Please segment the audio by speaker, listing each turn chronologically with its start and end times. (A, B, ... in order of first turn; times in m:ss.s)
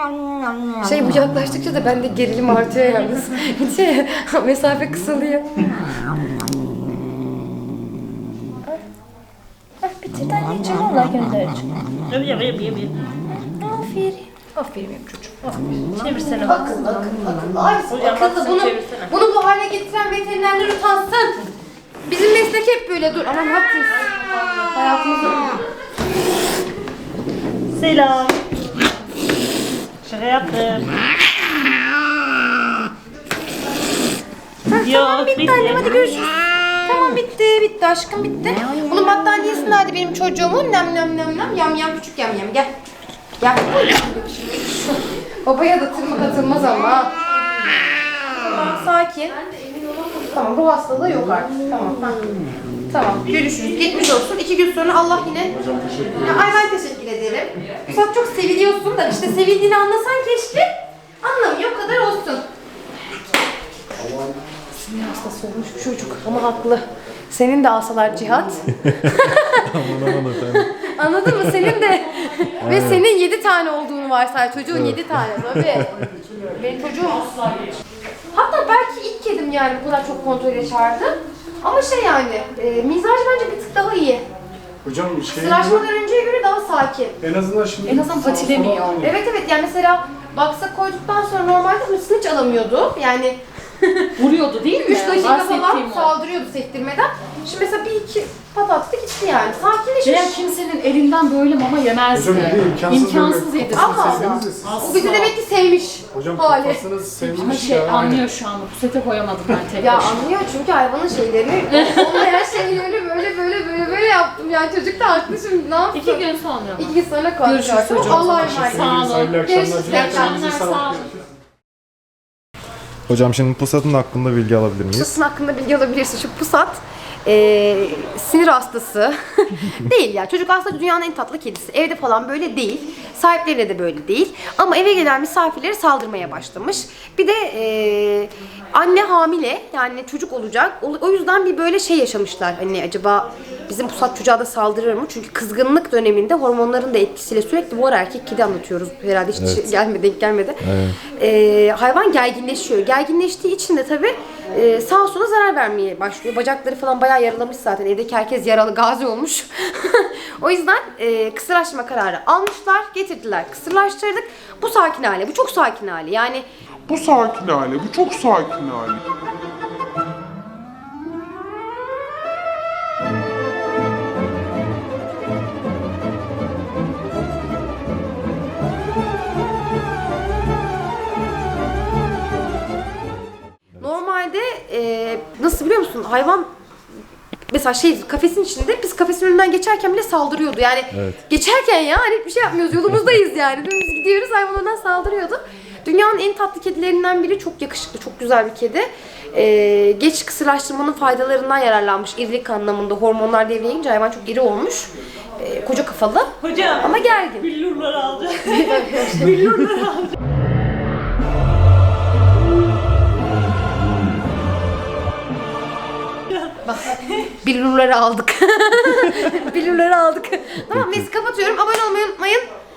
0:00.8-0:05.6 A
0:09.8-0:11.7 A
0:12.1-0:13.0 B
0:13.3-0:15.8 A
0:15.9-0:17.0 B
0:16.4-0:21.4 A
0:17.9-0:19.1 B
0:22.1-0:24.1 A
0:24.2-0:24.6 B
0:24.7-0:25.6 A
0:27.7-0:28.4 B
0:30.0-0:31.0 B
0:34.7-0:36.3 A
0:34.8-0:36.2 B
0:36.8-0:42.7 A
0:43.4-0:47.1 A
0:48.3-0:52.3 A
0:52.9-0:55.5 A
0:55.6-0:56.3 C
0:56.1-1:00.7 A
1:01.2-1:02.4 A
1:04.9-1:15.9 A
1:08.9-1:10.7 D
1:12.6-1:13.0 D
1:14.7-1:15.8 D
1:16.5-1:17.3 A
1:18.3-1:24.2 A
1:24.8-1:25.8 C
1:25.3-1:27.2 A
1:27.2-1:29.1 C
1:27.8-1:29.0 E
1:29.0-1:40.4 A
1:34.2-1:36.1 E
1:40.0-1:45.3 E
1:42.1-1:45.1 C
1:43.7-1:46.8 A
1:46.1-1:48.3 C
1:47.2-1:50.2 E
1:49.8-2:00.5 A
1:55.9-2:01.1 E
1:57.9-2:01.1 C
2:03.1-2:05.2 D
2:04.9-2:46.4 A
2:29.4-2:29.7 D
2:30.6-2:31.0 D
2:46.9-2:49.0 F
3:03.8-3:06.5 A
3:07.5-3:27.5 A
3:26.4-3:30.1 B
3:28.4-3:29.8 A
3:36.6-3:42.4 A